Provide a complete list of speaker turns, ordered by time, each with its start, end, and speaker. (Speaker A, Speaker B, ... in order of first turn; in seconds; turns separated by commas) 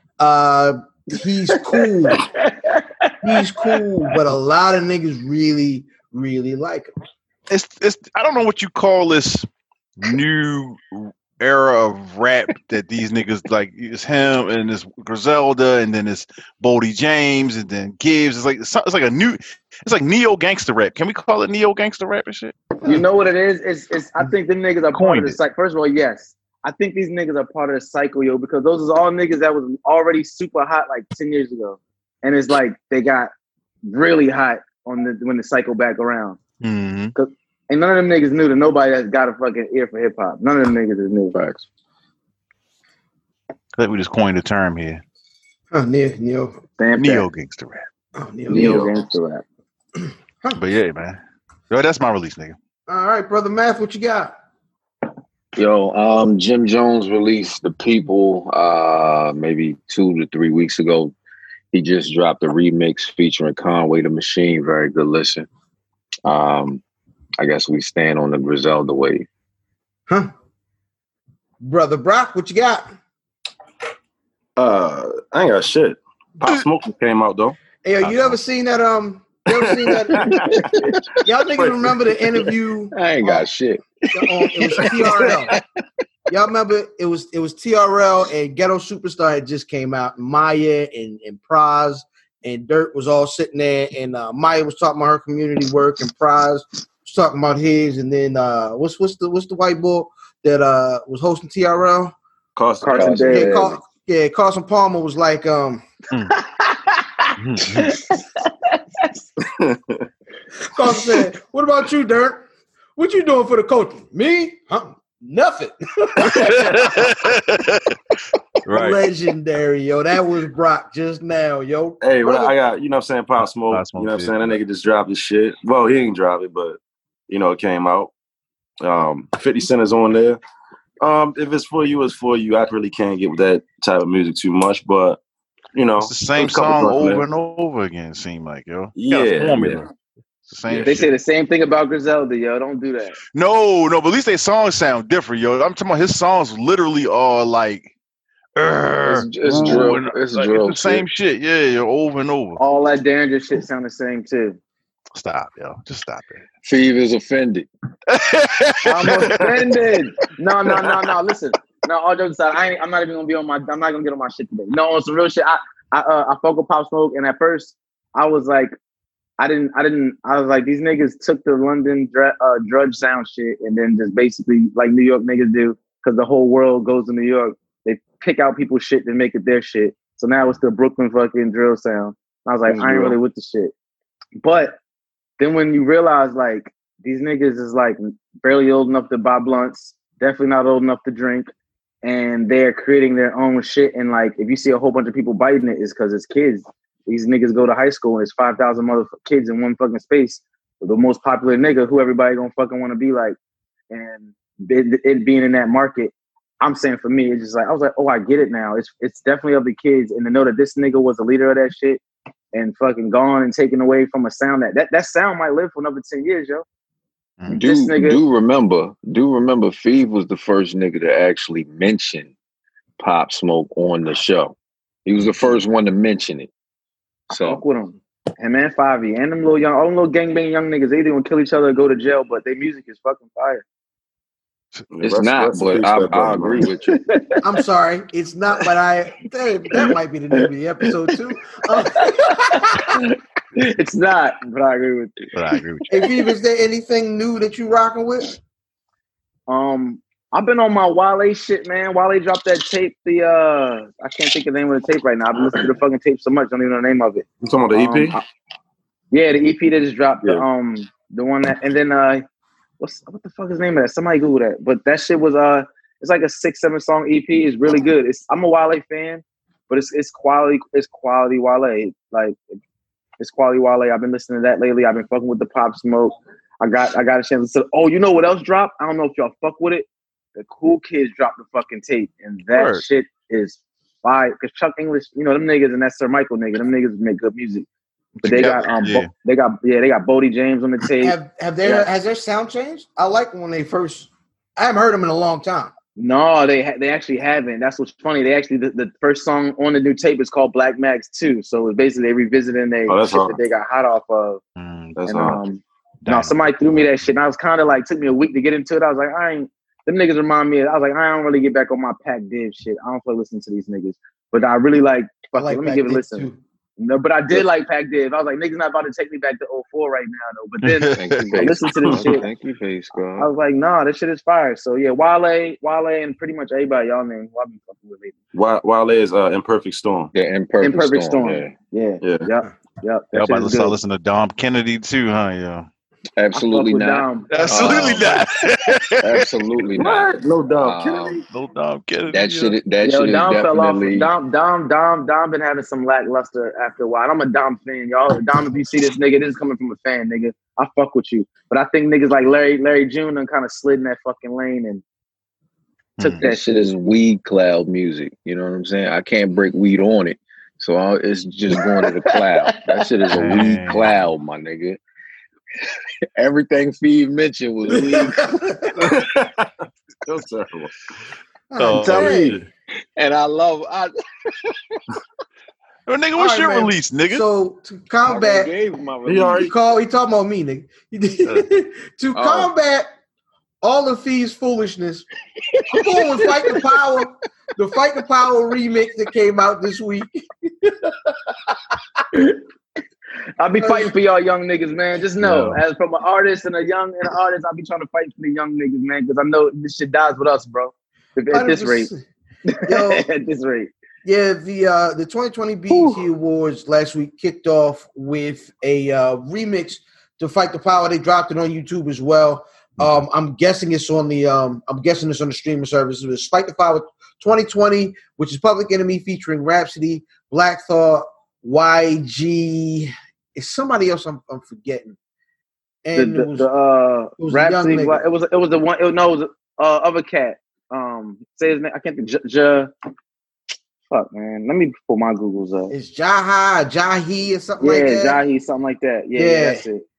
Speaker A: 0.2-2.2, Speaker B: 2.1-3.1, Speaker A: 3.2-6.9, Speaker C: 7.5-9.5, Speaker C: 10.0-22.6, Speaker B: 22.8-33.3, Speaker C: 24.9-25.4, Speaker B: 33.9-36.4, Speaker C: 36.6-37.1, Speaker B: 37.1-41.4, Speaker D: 41.3-41.6, Speaker C: 43.8-45.0, Speaker A: 45.7-46.6, Speaker B: 46.8-47.3, Speaker C: 47.0-47.9, Speaker A: 48.1-48.9, Speaker B: 48.5-49.4, Speaker D: 48.5-48.9, Speaker C: 50.5-51.2, Speaker C: 51.7-52.5, Speaker A: 52.9-54.3, Speaker D: 55.5-61.1, Speaker D: 61.7-65.5, Speaker D: 66.2-66.8, Speaker D: 67.4-69.3, Speaker A: 71.6-72.9, Speaker E: 74.6-77.6, Speaker A: 77.8-80.7, Speaker E: 79.5-80.9, Speaker A: 81.2-83.5, Speaker E: 81.5-82.4, Speaker D: 82.9-83.8, Speaker A: 84.1-85.5, Speaker E: 84.8-85.6, Speaker A: 86.3-102.1, Speaker E: 102.5-103.6, Speaker B: 102.8-103.7, Speaker D: 103.0-103.3, Speaker A: 103.0-105.8, Speaker B: 106.4-109.1, Speaker C: 107.4-108.0, Speaker E: 109.5-110.1, Speaker A: 110.6-112.4, Speaker A: 113.0-117.0, Speaker C: 116.4-118.0, Speaker E: 116.5-116.8, Speaker C: 118.7-119.0, Speaker A: 118.7-122.5, Speaker E: 122.0-126.8, Speaker C: 123.7-124.6, Speaker E: 127.3-128.1, Speaker E: 128.8-130.4, Speaker E: 131.0-135.2, Speaker E: 135.7-137.2, Speaker C: 136.0-139.9, Speaker E: 138.9-139.8, Speaker C: 140.5-141.1, Speaker E: 140.7-140.9, Speaker B: 140.8-143.2, Speaker C: 143.3-147.9, Speaker C: 148.6-152.6, Speaker D: 149.0-151.1, Speaker B: 152.6-154.6, Speaker C: 155.1-156.4, Speaker D: 156.6-157.7, Speaker C: 158.1-159.5, Speaker B: 158.8-168.7, Speaker B: 169.4-183.7, Speaker E: 182.7-183.1, Speaker B: 184.4-184.8, Speaker B: 185.4-191.5, Speaker B: 192.0-203.3, Speaker B: 203.9-212.0, Speaker B: 212.5-216.6, Speaker D: 217.5-222.3, Speaker B: 217.6-218.2, Speaker D: 223.0-226.5, Speaker D: 227.3-227.6, Speaker B: 227.3-233.6, Speaker E: 234.9-236.7, Speaker D: 235.0-236.9, Speaker B: 237.1-237.4, Speaker A: 237.4-243.0, Speaker B: 242.9-245.1, Speaker C: 245.3-245.9, Speaker A: 245.9-248.4, Speaker B: 249.5-258.2, Speaker E: 257.4-258.2, Speaker B: 259.1-262.2, Speaker B: 262.8-272.4, Speaker B: 273.2-287.7, Speaker C: 282.5-282.8, Speaker C: 288.2-289.1, Speaker B: 288.2-291.9, Speaker A: 291.0-295.7, Speaker B: 296.0-304.4, Speaker E: 302.9-303.4, Speaker C: 304.6-305.0, Speaker E: 305.0-305.4, Speaker B: 305.1-316.3, Speaker C: 306.0-306.9, Speaker A: 315.3-316.4, Speaker B: 316.8-322.3, Speaker C: 320.6-321.4, Speaker D: 320.9-323.3, Speaker B: 323.1-328.1, Speaker E: 328.3-330.1, Speaker D: 330.1-331.5, Speaker B: 330.6-333.8, Speaker E: 332.0-332.3, Speaker C: 333.1-335.7, Speaker D: 336.1-338.2, Speaker B: 336.3-337.5, Speaker C: 337.3-339.3, Speaker D: 339.0-341.2, Speaker E: 339.8-341.2, Speaker C: 341.3-342.5, Speaker D: 342.1-344.1, Speaker B: 342.8-354.8, Speaker C: 356.0-356.2, Speaker B: 356.0-356.6, Speaker D: 356.2-364.8, Speaker C: 363.1-364.0, Speaker D: 366.1-368.4, Speaker A: 367.7-368.9, Speaker E: 368.8-369.5, Speaker E: 370.0-370.8, Speaker A: 371.5-372.3, Speaker C: 371.6-372.4, Speaker E: 371.8-372.4, Speaker D: 373.0-374.8, Speaker C: 375.9-377.2, Speaker A: 376.1-378.5, Speaker D: 378.0-379.5, Speaker E: 379.1-379.5, Speaker A: 379.4-382.9, Speaker D: 382.1-382.5, Speaker A: 383.6-385.1, Speaker A: 385.7-391.1, Speaker B: 393.4-401.9, Speaker A: 393.6-393.9, Speaker C: 395.2-395.6, Speaker A: 401.3-402.0, Speaker B: 402.5-403.7, Speaker A: 402.6-403.1, Speaker A: 404.0-424.9, Speaker B: 405.7-406.0, Speaker A: 425.8-426.5, Speaker B: 425.9-432.7, Speaker A: 427.2-428.0, Speaker B: 433.9-435.7, Speaker A: 435.7-438.2, Speaker B: 437.6-439.8, Speaker A: 439.1-439.6